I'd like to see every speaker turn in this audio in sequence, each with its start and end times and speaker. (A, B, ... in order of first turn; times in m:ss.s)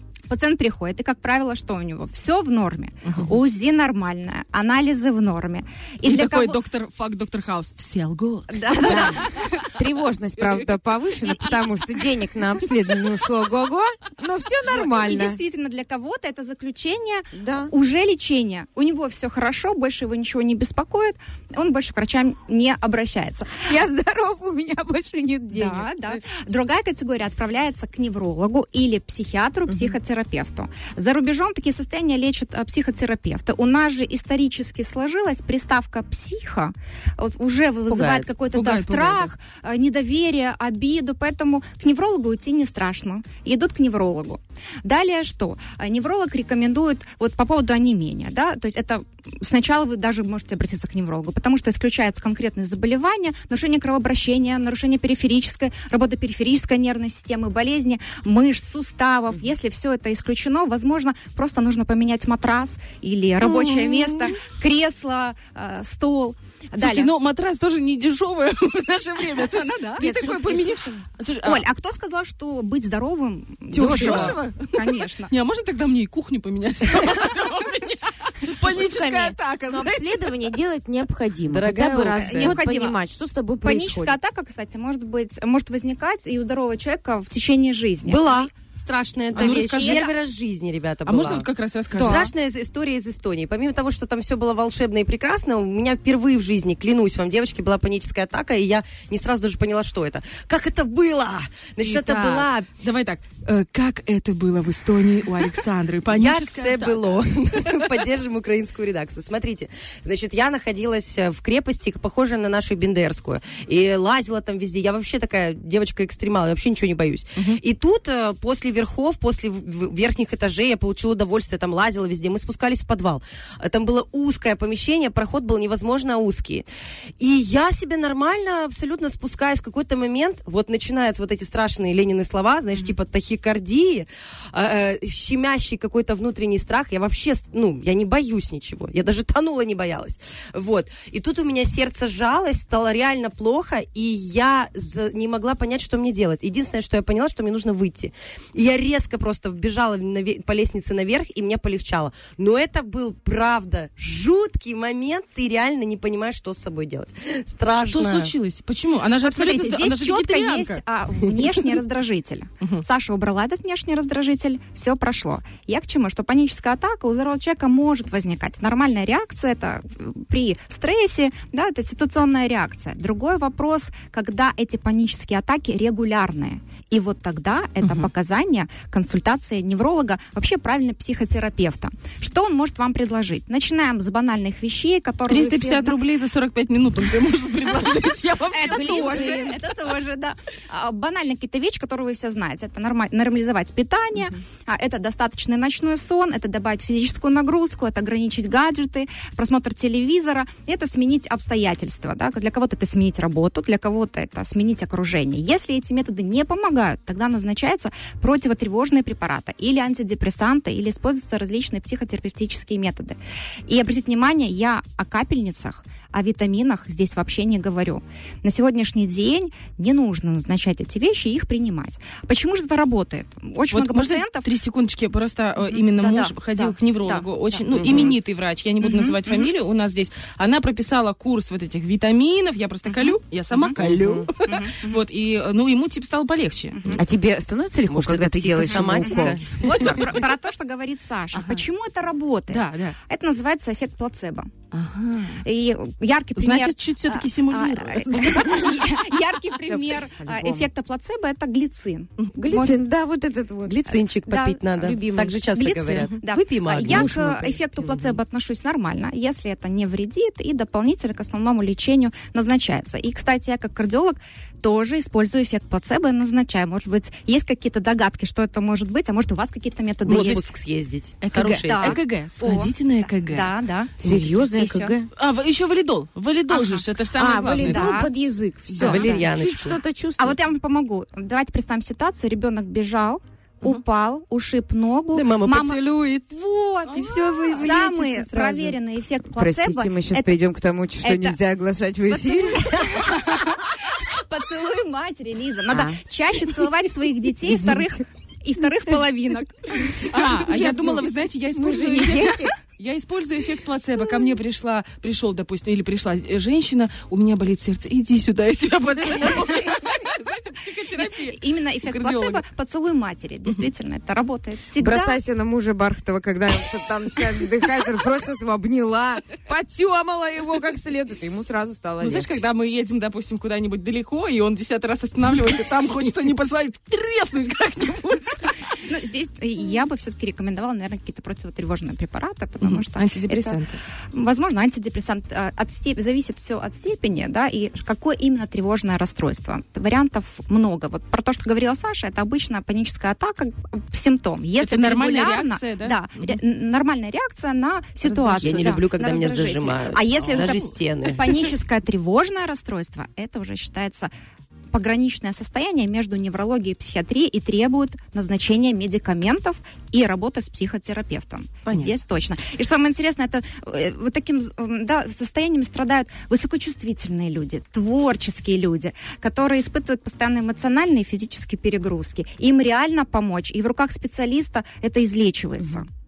0:00.3-0:06.6 A
0:03.0-0:03.4 B
0:06.0-0:09.7 B
0:08.5-0:09.6 A
0:08.8-0:15.4 C
0:10.4-0:10.7 B
0:14.8-0:23.7 A
0:17.3-0:17.7 C
0:23.6-0:26.2 C
0:25.5-1:07.1 A
0:37.9-0:38.3 D
0:38.5-0:39.3 B
1:03.4-1:04.3 B
1:06.8-1:11.6 B
1:09.5-1:15.3 A
1:13.7-1:20.3 B
1:18.6-1:24.2 C
1:21.5-1:22.7 D
1:22.2-1:23.0 A
1:23.6-1:28.4 A
1:28.0-1:42.7 D
1:29.3-1:30.1 A
1:29.3-1:30.0 B
1:31.0-1:32.3 B
1:32.0-1:32.3 A
1:41.8-1:47.8 B
1:46.1-2:06.6 D
2:07.2-2:38.3 D
2:37.9-2:40.8 B
2:39.2-3:06.0 A
2:57.8-2:58.1 B
3:05.3-3:09.6 B
3:08.5-3:44.5 A
3:08.8-3:09.5 C
3:43.7-3:56.9 B
3:45.7-3:48.0 A
3:47.7-3:48.1 D
3:48.8-3:49.2 A
3:52.9-3:53.8 A
3:53.8-3:54.2 C
3:54.4-3:54.9 A
3:56.9-3:59.4 C
3:57.9-4:00.2 D
3:59.0-4:04.5 A
3:59.6-4:00.0 B
4:01.3-4:01.6 B
4:02.5-4:03.0 B
4:04.7-4:05.4 B
4:05.4-4:12.8 A
4:06.4-4:08.8 B
4:09.7-4:10.7 C
4:12.4-4:13.9 C
4:13.6-4:18.0 D
4:14.3-4:14.9 A
4:14.7-4:15.4 C
4:15.4-4:30.5 A
4:30.0-4:32.0 D
4:31.2-4:33.5 B
4:31.5-4:34.9 A
4:34.0-4:35.1 C
4:35.2-4:37.9 B
4:36.5-4:38.1 A
4:37.2-4:40.4 C
4:38.8-4:39.2 A
4:38.8-4:39.8 D
4:40.2-4:50.4 A
4:45.1-4:46.2 D
4:46.9-4:48.8 D
4:46.9-4:47.7 B
4:49.3-4:52.7 C
4:51.0-4:51.4 A
4:52.1-5:01.0 A
4:55.7-4:56.7 C
4:57.4-4:58.0 C
5:00.1-5:12.4 B
5:00.4-5:01.0 C
5:01.5-5:02.5 C
5:11.0-5:15.2 A
5:14.8-5:22.3 C
5:22.0-5:28.5 B
5:28.8-5:33.6 A
5:32.6-5:33.8 B
5:34.1-5:54.1 A
5:44.6-5:46.4 B
5:48.0-5:48.8 B
5:48.4-5:51.4 D
5:54.7-6:15.9 A
6:01.7-6:01.9 B